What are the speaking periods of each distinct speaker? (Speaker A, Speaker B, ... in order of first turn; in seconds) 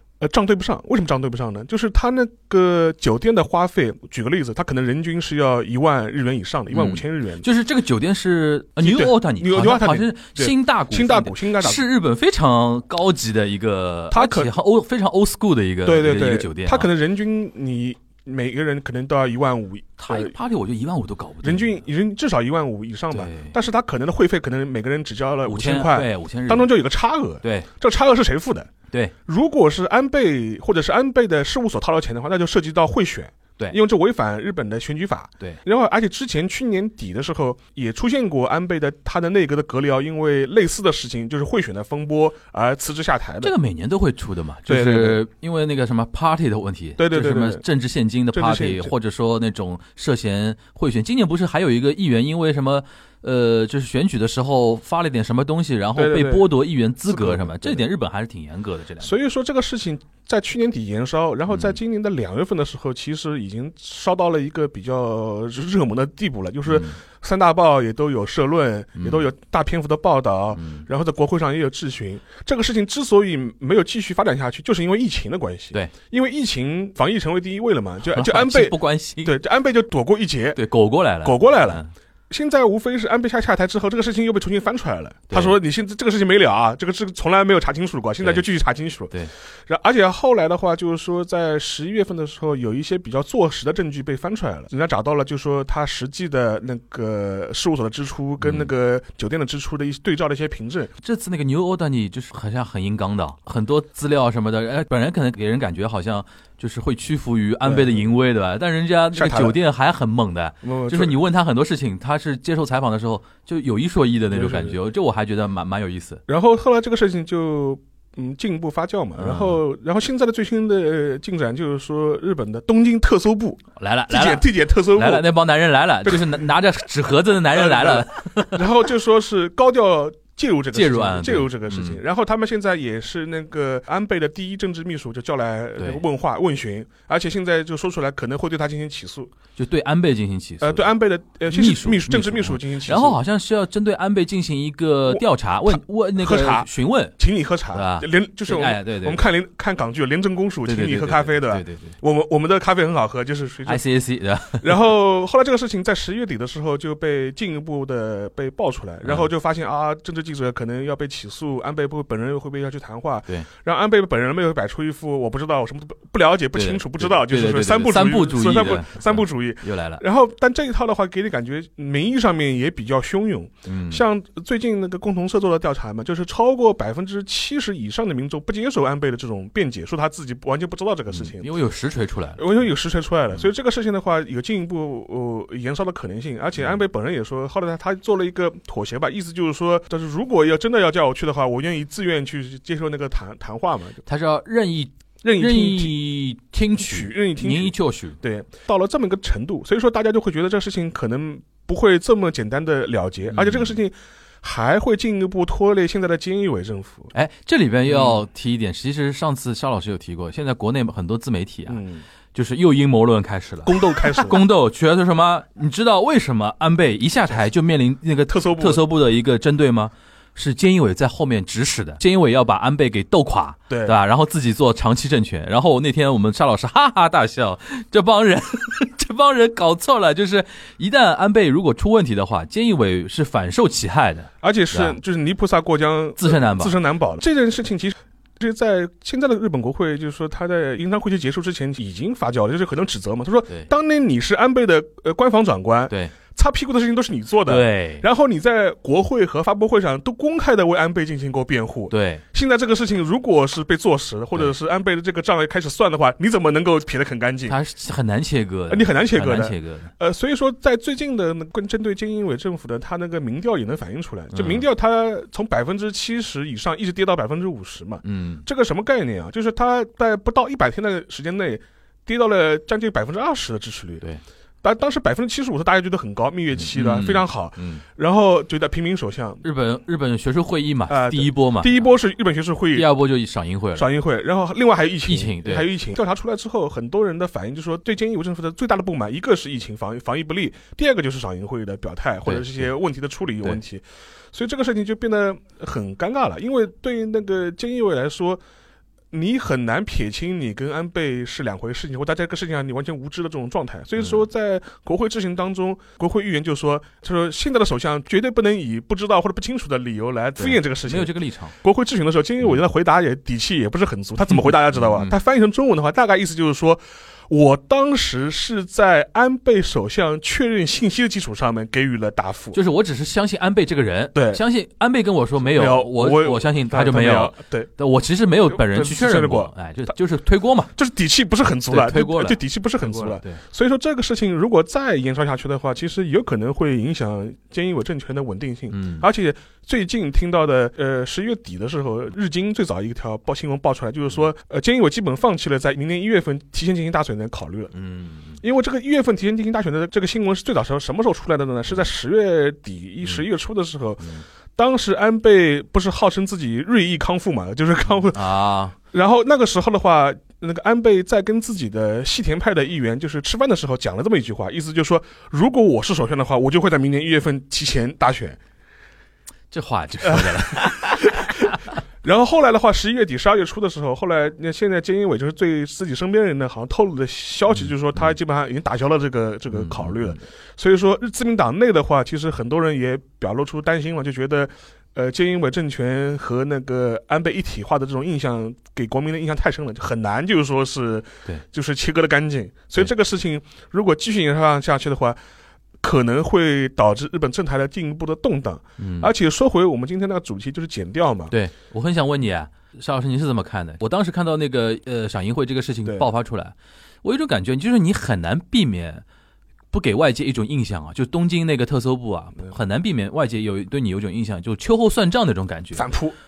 Speaker A: 0.2-7.5, 8.8-11.8, 14.1-14.5, 15.8-20.3, 21.4-28.7, 29.2-43.5, 44.7-45.2, 47.0-47.6, 48.3-48.9, 56.0-56.5, 57.0-57.8, 59.0-80.6, 81.2-89.1, 89.7-100.9, 107.6-108.1, 109.1-109.6, 110.6-111.2, 114.3-114.8, 116.3-125.3, 126.0-126.5, 127.5-139.3, 140.6-143.2, 145.1-153.8, 154.6-181.5, 182.4-194.0, 195.2-195.9, 196.8-207.1, 207.9-208.2, 211.7-212.0, 213.6-214.4, 218.3-218.8, 223.7-224.0, 234.4-257.6, 258.7-274.1, 274.6-279.4, 280.9-282.9, 283.7-298.4, 299.1-322.6, 324.1-324.4, 325.4-327.7, 328.5-329.5, 330.8-347.7, 348.4-358.4, 358.9-368.4, 370.0-371.5, 372.0-395.2, 395.8-401.3, 415.7-416.1
Speaker B: 6.7-16.9, 20.0-21.8, 23.1-23.5, 25.4-26.7, 27.4-27.7, 43.4-59.1, 61.5-61.8, 66.7-67.0, 69.0-69.2, 70.5-70.8, 78.1-79.3, 80.5-81.9, 98.4-98.7, 101.0-116.2, 119.2-119.6, 123.8-128.7, 130.7-132.0, 135.8-136.0, 139.6-140.9, 141.5-147.1, 147.7-149.3, 150.6-151.9, 153.7-154.8, 159.0-159.3, 166.5-170.0, 173.7-174.0, 181.1-182.5, 194.1-198.2, 203.3-203.8, 207.1-211.8, 212.3-235.0, 236.2-236.8, 247.4-248.1, 251.9-252.2, 257.5-259.9, 264.3-264.6, 268.0-268.4, 276.6-277.8, 279.4-281.8, 282.7-283.9, 285.1-285.7, 292.2-292.7, 310.4-311.5, 314.3-315.1, 322.5-330.7, 331.7-333.4, 338.7-339.1, 347.7-348.4, 358.1-358.7, 369.5-371.6, 379.5-380.2, 398.8-399.1, 401.3-409.0, 409.7-415.9